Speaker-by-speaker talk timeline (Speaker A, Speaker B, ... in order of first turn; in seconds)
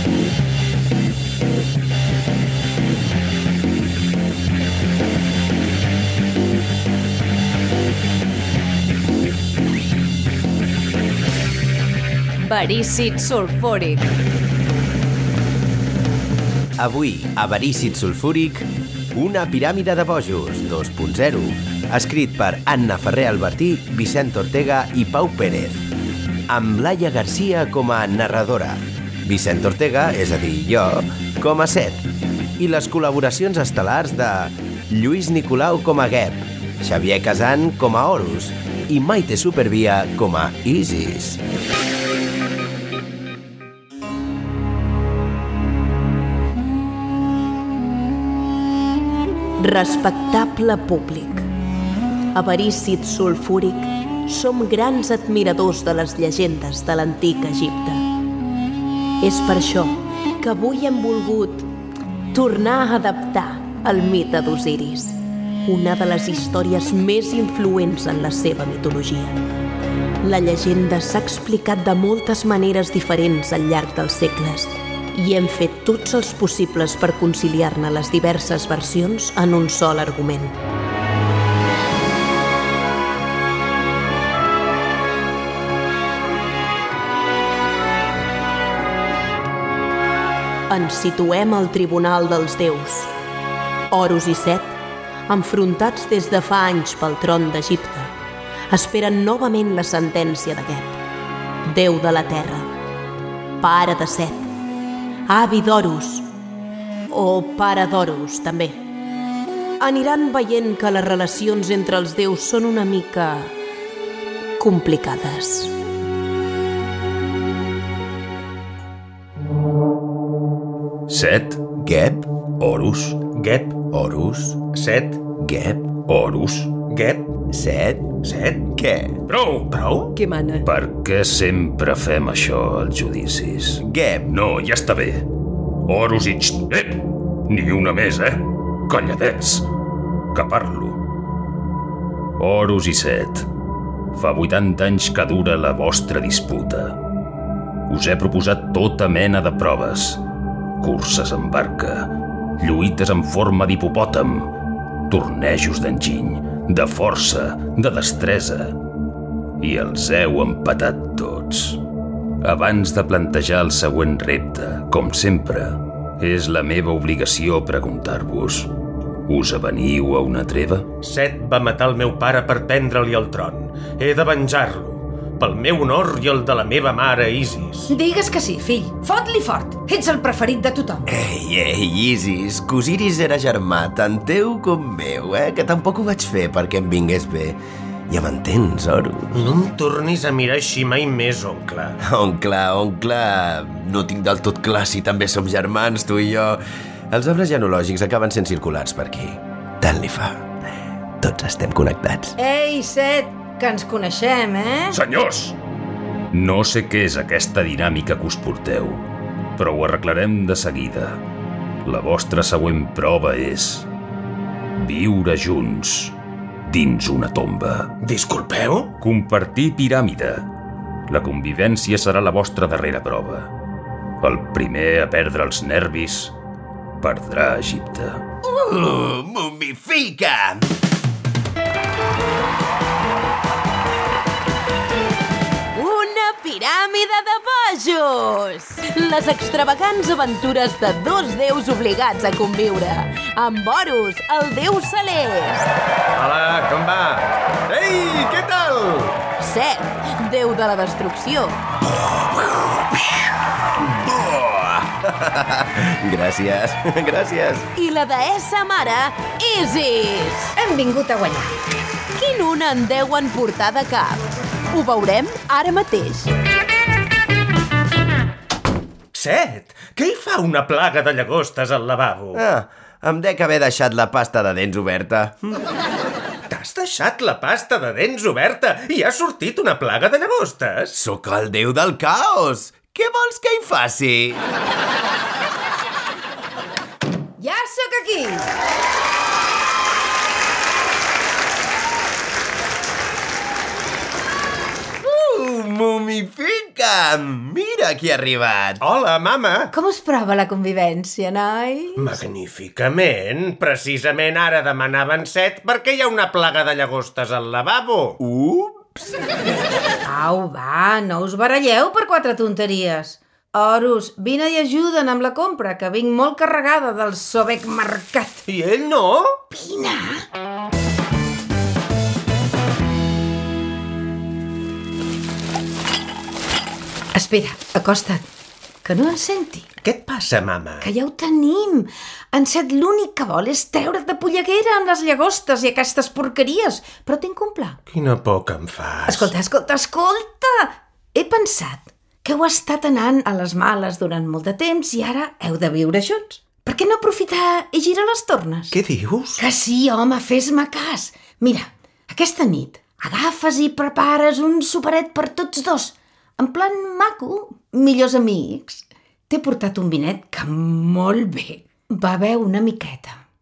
Speaker A: 16.8-25.8, 26.5-32.0, 32.6-41.4, 121.8-122.3, 123.9-124.6, 125.4-125.9, 127.5-128.1, 128.7-129.2, 133.8-134.3, 181.1-189.4, 192.0-200.5, 201.2-202.3, 228.4-230.7, 253.8-257.7, 272.3-275.6, 280.9-284.4, 295.0-298.8, 308.2-309.1
Speaker B: 49.6-51.5, 52.3-58.0, 59.2-61.7, 62.3-69.4, 70.2-80.5, 90.7-93.1, 93.9-94.8, 95.3-98.1, 98.7-101.0, 101.7-102.7, 103.6-104.4, 105.3-106.2, 107.1-108.8, 109.8-113.5, 114.6-115.8, 235.7-245.7, 249.4-251.6, 257.7-260.5, 262.1-266.3
Speaker C: 121.1-121.6, 122.6-123.2, 126.1-126.8, 129.3-129.7, 130.6-135.3, 135.8-139.7, 140.3-141.0, 142.4-143.5, 144.1-147.0, 147.9-150.2, 150.8-154.5, 155.1-158.8, 159.6-161.8, 162.4-168.7, 169.3-170.9, 204.9-205.6, 206.3-211.2, 211.8-213.9, 214.8-216.2, 216.7-217.9, 219.0-220.5, 221.1-223.5, 224.2-226.3, 227.0-228.2
Speaker D: 123.3-123.7, 124.7-125.2, 126.9-127.3, 128.2-128.7, 129.7-130.1, 171.0-177.9, 189.3-192.0, 218.0-218.9, 246.2-249.1, 269.1-272.4, 276.5-280.9, 298.8-299.7, 302.0-308.2, 318.4-319.3, 329.8-330.9, 337.9-339.3, 348.7-349.4
Speaker E: 177.9-181.1, 202.4-205.0, 260.5-261.6, 287.4-288.5, 299.7-302.1, 310.0-318.4, 319.5-320.2, 327.1-328.2, 328.8-329.7, 330.8-337.8, 339.1-348.7, 349.4-363.2